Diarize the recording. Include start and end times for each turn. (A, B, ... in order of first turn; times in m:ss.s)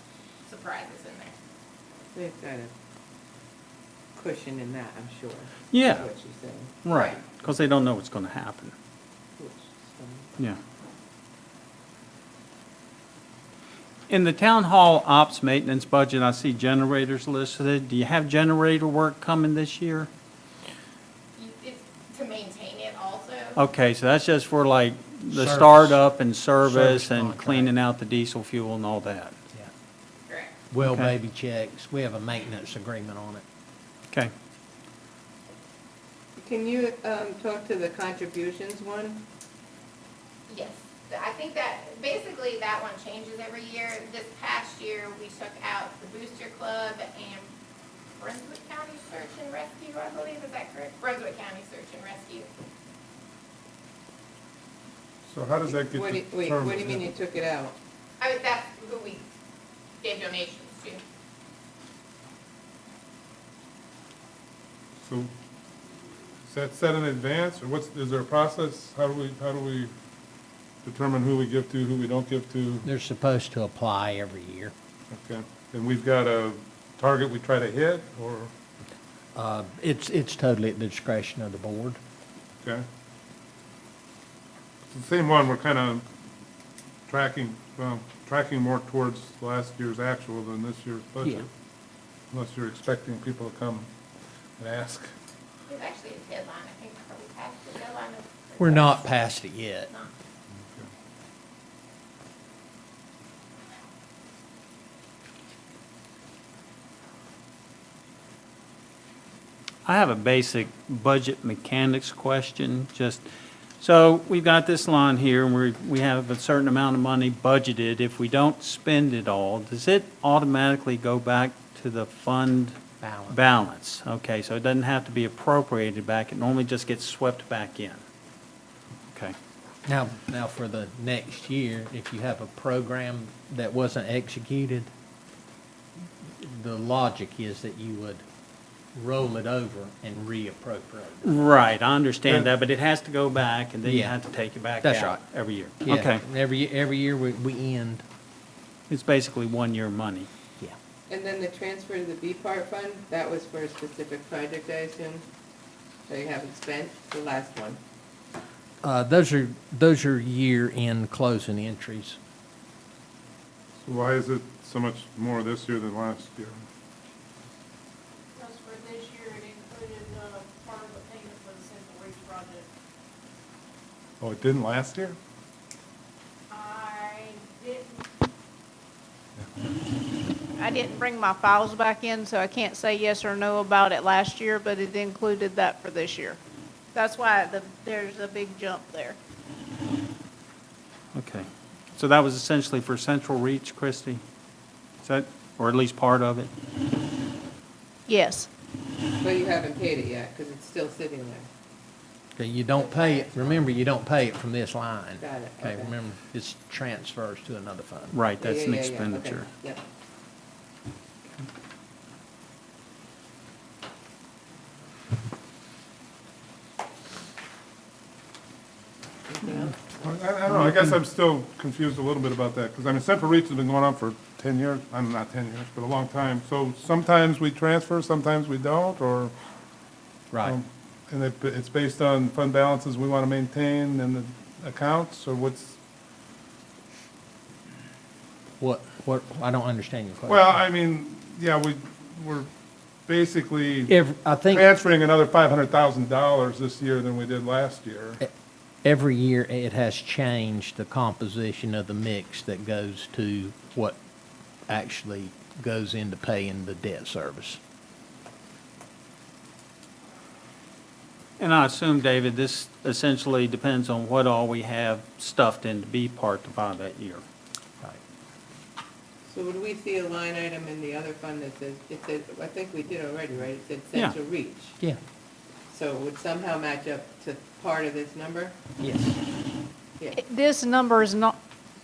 0:00.4-0:01.3 A
0:02.1-0:02.7 B
0:04.1-0:07.2 B
0:05.7-0:06.1 C
0:06.8-0:08.7 C
0:09.4-0:10.3 B
0:14.1-0:20.1 C
0:21.4-0:23.6 A
0:23.6-0:29.4 C
0:25.3-0:26.0 D
0:26.6-0:27.7 D
0:30.3-0:30.5 A
0:30.7-0:33.4 D
0:30.8-0:31.1 C
0:36.4-0:39.2 B
0:40.5-0:47.5 A
0:48.2-0:52.5 A
0:55.2-0:57.1 E
0:55.6-0:57.8 B
0:58.2-0:59.3 A
1:00.0-1:01.0 A
1:05.0-1:05.3 E
1:05.9-1:09.9 E
1:10.8-1:12.9 E
1:12.8-1:14.7 D
1:15.1-1:18.5 E
1:19.3-1:22.0 D
1:24.9-1:26.0 E
1:27.1-1:31.5 E
1:32.3-1:33.9 E
1:34.6-1:35.1 E
1:35.7-1:39.2 A
1:38.6-1:39.9 D
1:40.6-1:40.9 E
1:49.8-1:53.3 C
1:53.8-2:02.8 C
2:03.0-2:03.4 D
2:03.3-2:08.0 C
2:09.8-2:14.9 D
2:16.3-2:18.2 D
2:18.9-2:21.4 D
2:21.2-2:26.2 C
2:23.8-2:24.1 D
2:24.8-2:25.2 D
2:25.8-2:28.0 D
2:28.9-2:30.3 C
2:31.1-2:35.2 B
2:36.1-2:37.8 B
2:38.8-2:42.2 D
2:43.8-2:46.6 E
2:48.3-2:52.7 F
2:54.2-2:55.2 E
2:56.5-2:58.0 F
3:00.6-3:06.4 F
3:06.9-3:09.2 F
3:11.1-3:14.2 C
3:15.0-3:16.5 C
3:18.1-3:18.5 F
3:19.2-3:21.5 B
3:22.4-3:28.1 D
3:22.8-3:23.6 B
3:25.2-3:25.9 B
3:28.1-3:29.5 C
3:28.4-3:29.8 B
3:39.3-3:40.0 B
3:40.0-3:49.3 E
3:50.3-3:50.6 D
3:50.4-3:55.8 E
3:58.6-4:00.6 D
4:00.3-4:02.5 E
4:03.1-4:03.9 E
4:03.9-4:04.7 D
4:04.5-4:08.2 E
4:08.8-4:14.0 D
4:14.7-4:17.6 D
4:21.4-4:27.2 C
4:29.3-4:34.8 B
4:35.7-4:38.6 B
4:38.8-4:39.2 D
4:40.1-4:41.4 F